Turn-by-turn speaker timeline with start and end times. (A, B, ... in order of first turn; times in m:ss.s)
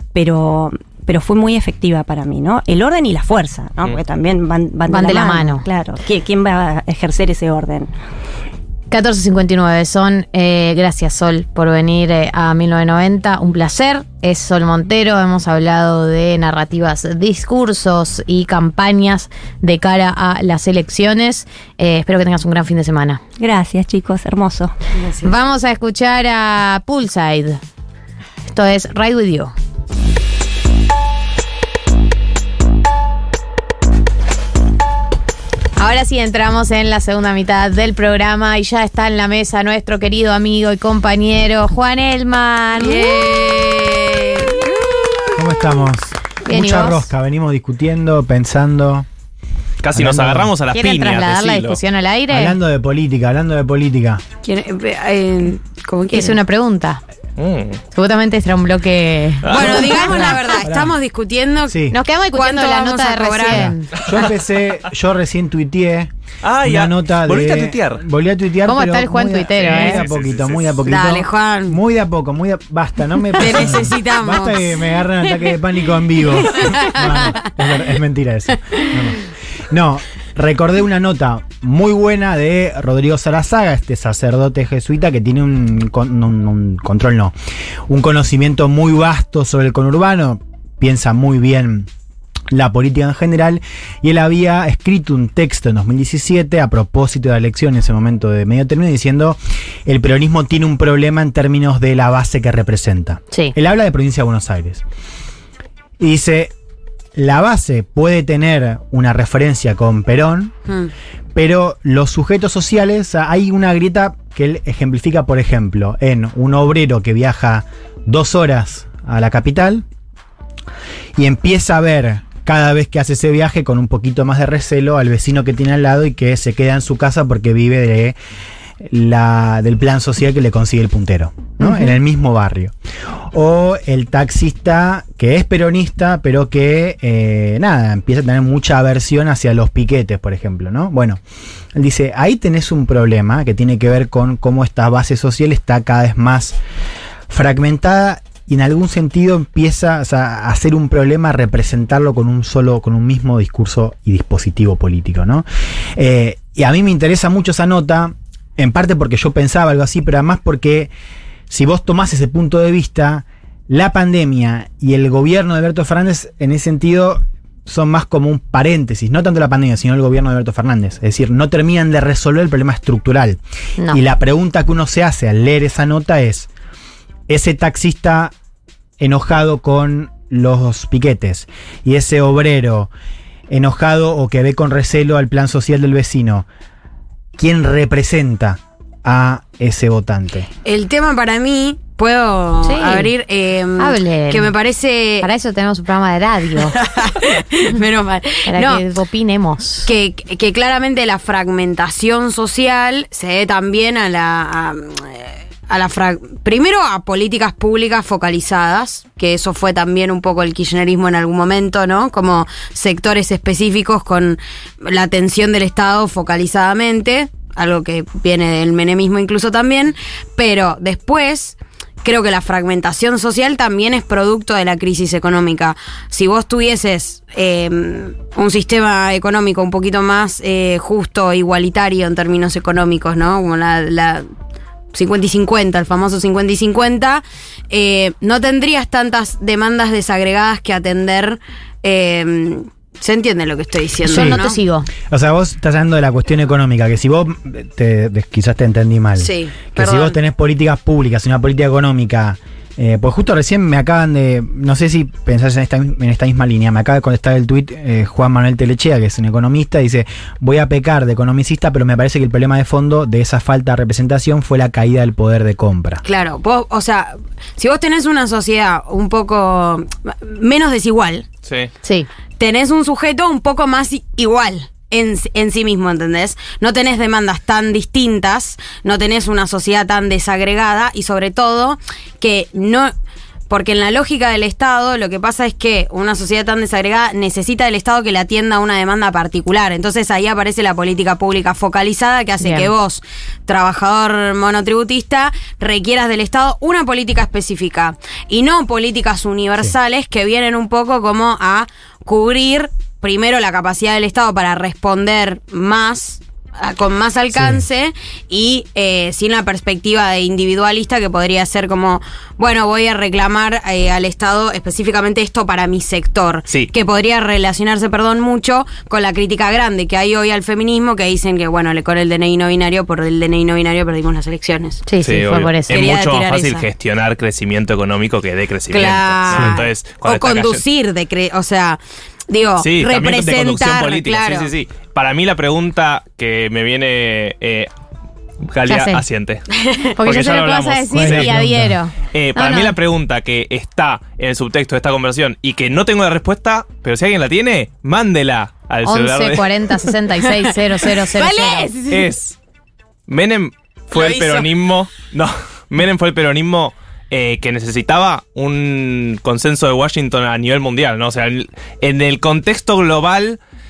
0:00.1-0:07.9 A
0:04.9-0:05.6 B
0:08.9-0:23.2 B
0:23.4-0:24.7 A
0:25.0-0:25.3 C
0:25.2-0:27.6 B
0:28.5-0:29.5 B
0:35.8-0:43.3 B
0:42.8-0:45.4 C
0:45.4-0:49.0 D
0:46.4-0:47.1 B
0:49.8-0:51.8 E
0:49.9-0:50.5 D
0:50.7-0:52.5 B
0:52.3-0:54.2 D
0:54.4-0:56.4 C
0:56.1-0:57.0 B
0:57.4-0:57.8 E
0:57.9-1:00.2 B
0:59.4-1:00.2 E
0:59.5-1:01.8 C
1:00.1-1:00.9 D
1:01.7-1:02.0 D
1:01.9-1:03.9 B
1:02.3-1:03.7 C
1:03.5-1:06.1 D
1:06.4-1:08.0 E
1:06.6-1:19.2 D
1:08.6-1:10.0 B
1:09.6-1:10.8 E
1:10.8-1:11.8 C
1:13.4-1:14.7 C
1:16.5-1:17.5 C
1:19.7-1:27.3 D
1:27.9-1:31.9 D
1:32.5-1:44.8 D
1:46.0-1:46.5 D
1:47.1-1:50.5 D
1:51.3-1:59.8 D
2:01.2-2:08.1 D
2:08.8-2:12.7 D
2:11.6-2:11.9 B
2:13.3-2:21.2 D
2:21.7-2:26.6 D
2:27.3-2:35.4 D
2:36.0-2:40.9 D
2:41.5-2:56.5 D
2:57.3-2:58.3 D
2:59.0-3:02.9 D
3:03.5-3:06.4 D
3:07.4-3:10.5 D
3:10.6-3:15.3 C
3:12.6-3:13.1 B
3:13.8-3:14.5 B
3:15.2-3:16.7 B
3:16.6-3:18.8 C
3:18.4-3:19.9 B
3:19.8-3:54.3 C
3:54.9-4:04.6 C
4:04.0-4:04.9 B
4:04.1-4:04.4 D
4:05.1-4:26.0 D
4:09.2-4:10.2 C
4:26.0-4:31.2 C
4:31.4-4:31.7 E
4:32.4-4:42.9 C
4:43.5-5:24.8 C
4:52.4-4:52.7 B
5:07.3-5:07.6 D
5:24.9-5:25.8 B
5:25.0-5:30.6 E
5:25.7-5:26.6 C
5:28.7-5:34.5 C
5:32.6-5:37.7 E
5:38.5-5:39.4 E
5:38.7-5:39.0 B
5:39.6-5:39.9 C
5:40.0-5:42.7 B
5:40.0-5:41.3 E
5:40.9-5:41.8 D
5:42.1-5:49.5 E
5:48.8-5:51.7 B
5:51.1-5:52.0 C
5:51.9-5:52.4 E
5:53.1-6:03.4 E
5:53.9-5:54.5 C